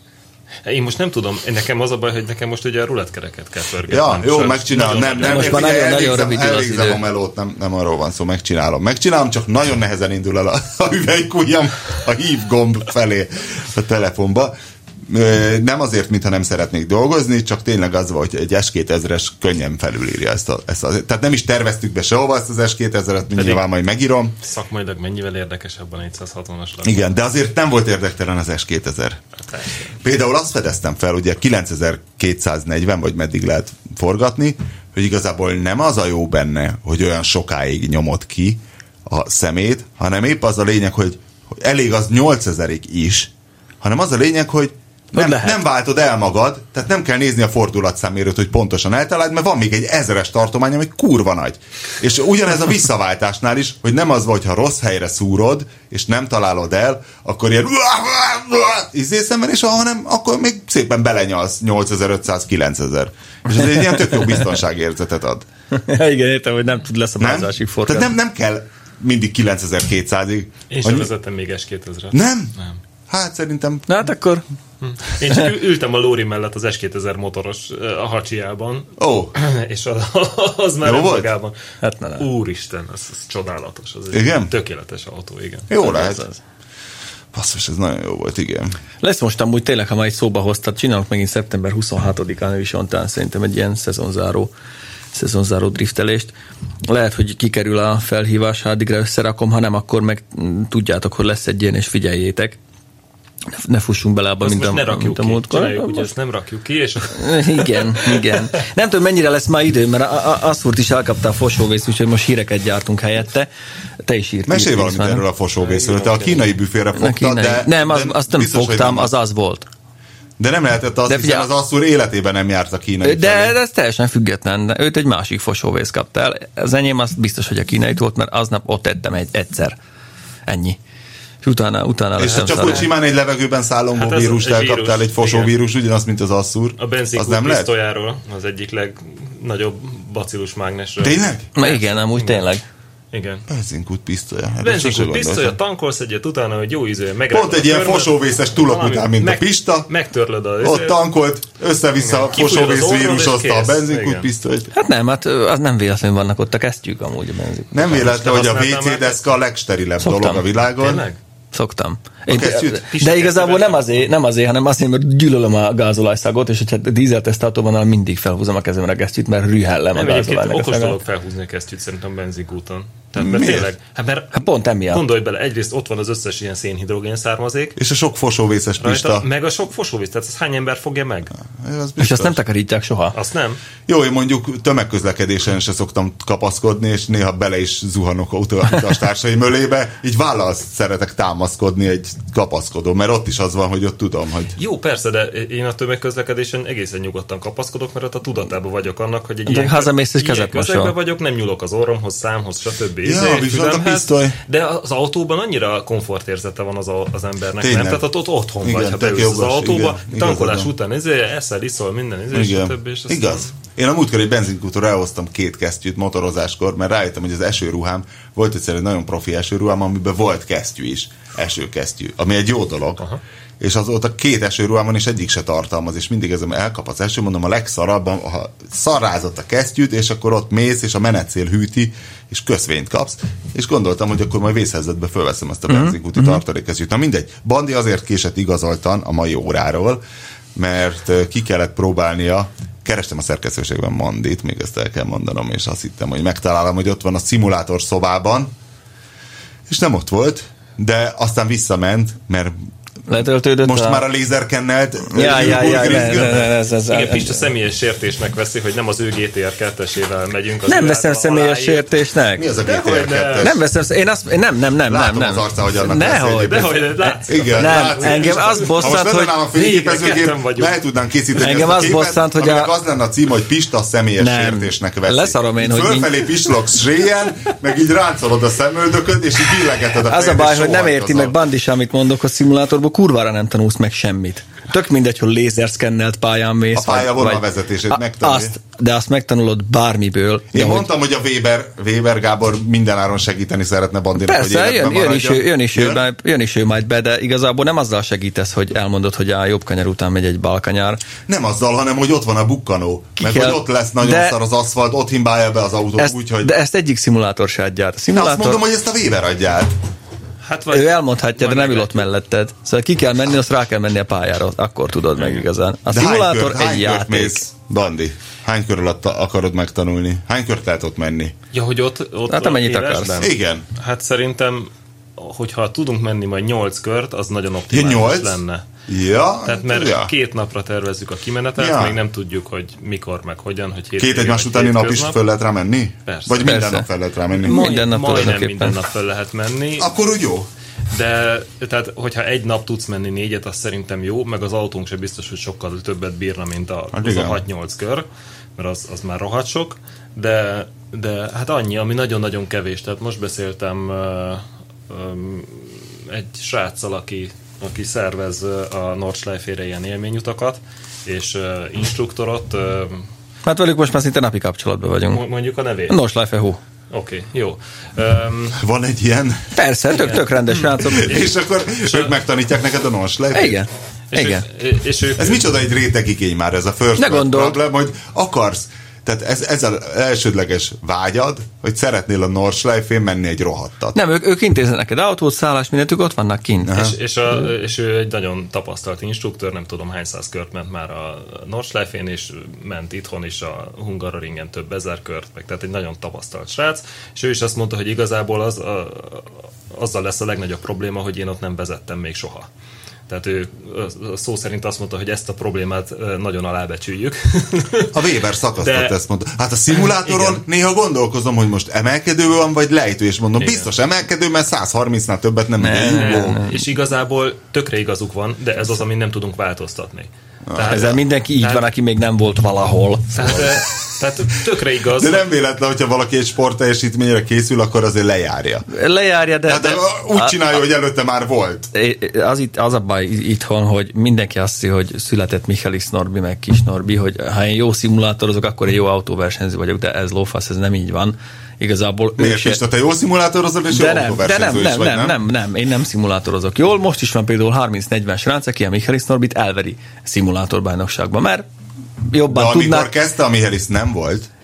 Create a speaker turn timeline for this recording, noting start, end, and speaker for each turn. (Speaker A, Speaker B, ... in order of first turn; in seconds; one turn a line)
Speaker A: 0.7-5.8
Speaker B: 3.9-24.4
Speaker C: 5.2-7.0
Speaker A: 23.4-23.6
Speaker A: 24.4-27.1
Speaker B: 26.8-29.2
Speaker A: 29.5-29.9
Speaker B: 30.0-65.5
Speaker C: 45.1-45.6
Speaker C: 65.7-68.1
Speaker B: 67.2-71.1
Speaker A: 70.7-72.8
Speaker B: 72.1-72.5
Speaker B: 73.1-73.9
Speaker C: 73.9-74.4
Speaker A: 74.8-81.5
Speaker B: 79.0-79.3
Speaker B: 80.8-81.3
Speaker C: 81.8-82.3
Speaker A: 82.2-85.7
Speaker B: 84.1-84.5
Speaker B: 85.7-86.2
Speaker C: 85.8-86.4
Speaker B: 87.3-88.8
Speaker C: 89.0-94.5
Speaker C: 95.1-96.3
Speaker C: 96.9-102.6
Speaker C: 103.5-106.1
Speaker A: 104.4-108.4
Speaker C: 107.1-113.5
Speaker C: 114.0-115.2
Speaker B: 114.5-119.1
Speaker A: 115.6-116.5
Speaker C: 117.0-119.7
Speaker B: 120.4-123.6
Speaker C: 121.1-121.5
Speaker C: 123.0-129.8
Speaker C: 130.5-130.8
Speaker C: 131.4-132.9
Speaker B: 132.2-137.7
Speaker A: 132.3-132.9
Speaker A: 134.0-135.5
Speaker A: 136.8-142.5
Speaker B: 141.0-141.5
Speaker C: 141.6-142.6
Speaker A: 143.1-143.4
Speaker B: 143.5-145.6
Speaker A: 144.6-151.0
Speaker B: 147.3-149.9
Speaker B: 150.6-154.7
Speaker A: 152.0-154.3
Speaker C: 154.7-158.0
Speaker B: 157.7-161.1
Speaker A: 157.9-159.2
Speaker C: 160.0-160.4
Speaker A: 160.8-161.2
Speaker C: 161.5-171.0
Speaker B: 162.3-162.8
Speaker A: 162.9-164.1
Speaker A: 169.9-177.8
Speaker B: 173.2-173.7
Speaker C: 174.3-175.0
Speaker B: 177.8-179.3
Speaker A: 178.8-181.3
Speaker B: 181.5-182.4
Speaker C: 182.0-183.2
Speaker A: 183.1-183.6
Speaker B: 183.9-194.6
Speaker A: 194.6-213.5
Speaker C: 199.5-200.9
Speaker B: 203.0-204.4
Speaker B: 207.6-208.0
Speaker B: 208.6-210.7
Speaker B: 212.3-223.1
Speaker B: 223.6-240.0
Speaker C: 235.7-236.4
Speaker B: 240.6-248.5
Speaker B: 249.7-252.6
Speaker C: 253.1-254.1
Speaker B: 253.6-256.5
Speaker C: 255.1-257.5
Speaker A: 256.9-261.9
Speaker C: 260.7-262.5
Speaker B: 262.4-263.6
Speaker A: 262.6-263.5
Speaker C: 263.4-269.4
Speaker B: 264.9-281.4
Speaker A: 266.4-269.0
Speaker A: 269.5-270.8
Speaker C: 271.4-272.7
Speaker C: 274.2-276.3
Speaker C: 280.1-290.9
Speaker B: 286.7-288.6
Speaker B: 290.5-296.0
Speaker C: 294.2-301.0
Speaker B: 301.3-306.6
Speaker C: 303.2-304.4
Speaker C: 306.0-308.6
Speaker B: 308.1-309.8
Speaker A: 310.4-312.1
Speaker C: 310.7-317.4
Speaker A: 315.2-315.4
Speaker B: 315.9-321.4
Speaker A: 321.5-328.6
Speaker C: 322.3-323.2
Speaker B: 323.2-323.7
Speaker B: 327.7-330.1
Speaker A: 329.4-335.2
Speaker B: 331.6-332.0
Speaker B: 334.0-337.7
Speaker A: 336.1-336.5
Speaker C: 336.4-336.9
Speaker C: 337.4-338.8
Speaker A: 337.4-339.9
Speaker B: 339.8-340.5
Speaker A: 340.9-363.1
Speaker B: 346.9-347.4
Speaker C: 363.4-365.2
Speaker A: 365.1-366.0
Speaker C: 365.9-366.6
Speaker A: 366.9-368.6
Speaker B: 368.6-369.5
Speaker C: 369.6-371.1
Speaker A: 369.9-372.1
Speaker B: 370.8-373.6
Speaker C: 373.3-374.4
Speaker A: 374.1-375.5
Speaker B: 375.2-384.0
Speaker C: 377.0-377.6
Speaker C: 383.9-386.9
Speaker B: 386.7-386.9
Speaker A: 386.7-402.5
Speaker A: 403.1-408.1
Speaker B: 407.9-416.4
Speaker A: 408.6-409.0
Speaker A: 409.7-410.4
Speaker A: 413.4-413.7
Speaker C: 415.6-416.6
Speaker A: 415.8-421.7
Speaker B: 420.5-420.8
Speaker C: 420.6-423.5
Speaker A: 423.1-425.2
Speaker B: 425.0-428.7
Speaker C: 428.7-430.4
Speaker B: 429.5-431.7
Speaker C: 431.7-442.6
Speaker B: 442.2-445.2
Speaker C: 443.7-451.5
Speaker C: 452.1-452.9
Speaker B: 452.3-454.3